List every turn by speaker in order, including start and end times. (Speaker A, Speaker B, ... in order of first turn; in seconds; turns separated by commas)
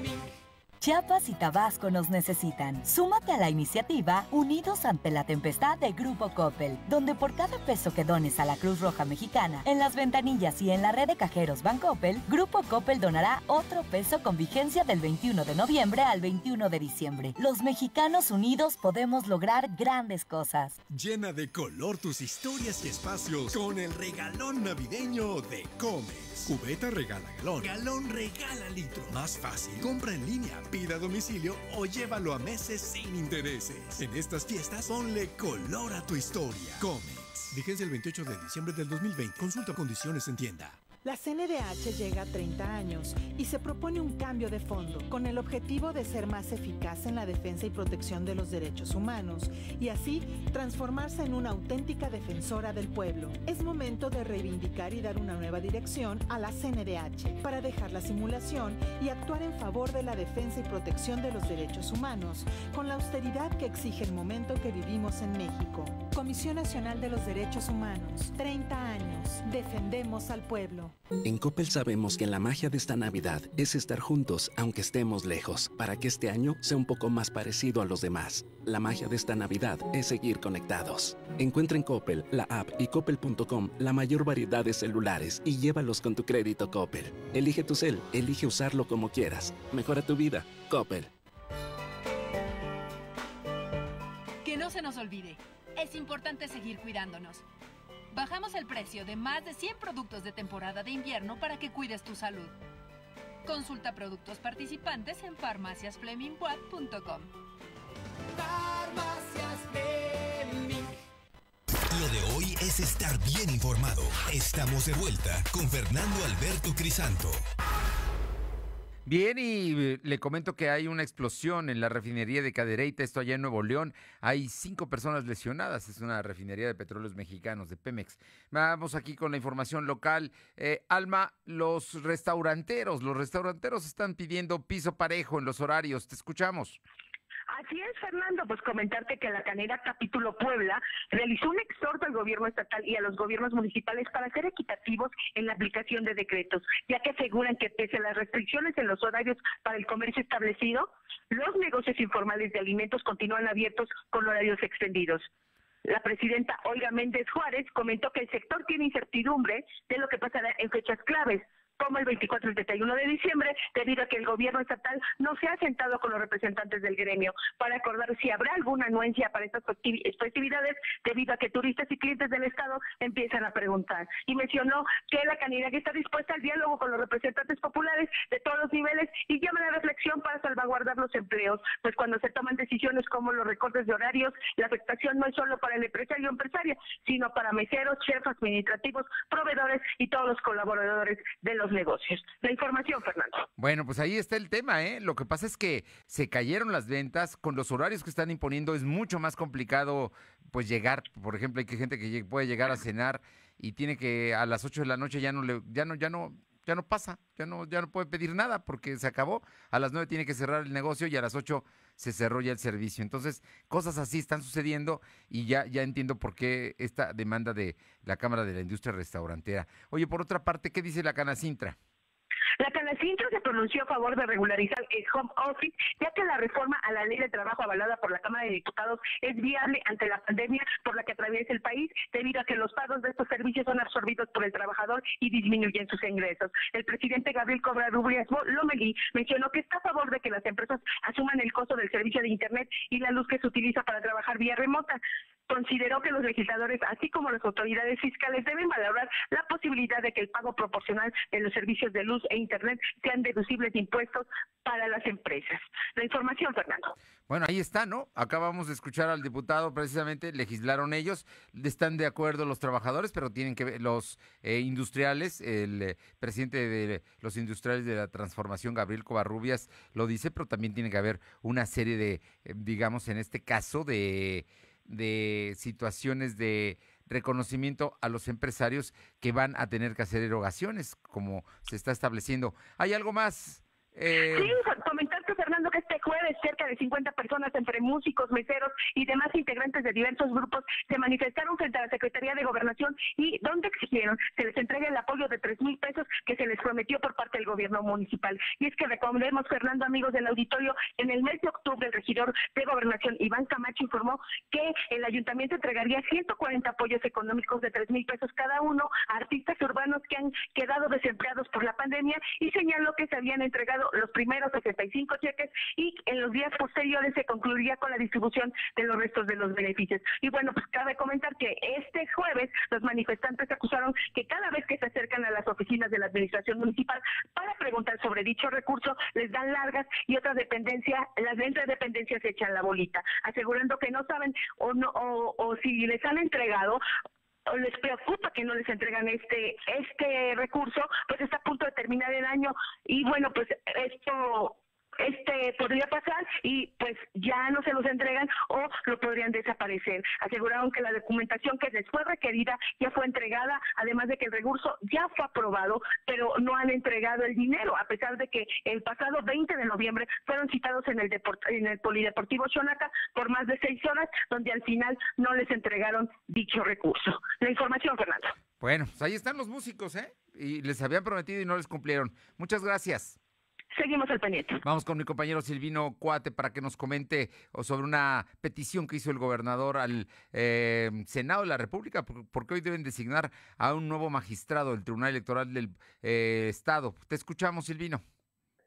Speaker A: 0.8-20.8, Speaker B: 20.9-40.9, Speaker C: 41.0-70.9, Speaker D: 71.2-91.1, Speaker E: 94.4-97.4, Speaker E: 98.1-102.5, Speaker E: 103.4-107.3, Speaker F: 111.9-117.5, Speaker G: 119.0-136.8, Speaker H: 137.5-155.3, Speaker H: 155.8-193.5, Speaker G: 193.6-221.8, Speaker H: 222.6-256.9, Speaker G: 257.3-284.6, Speaker H: 284.3-336.8, Speaker H: 337.5-368.3, Speaker G: 368.6-373.2, Speaker H: 373.7-374.6, Speaker G: 374.6-388.0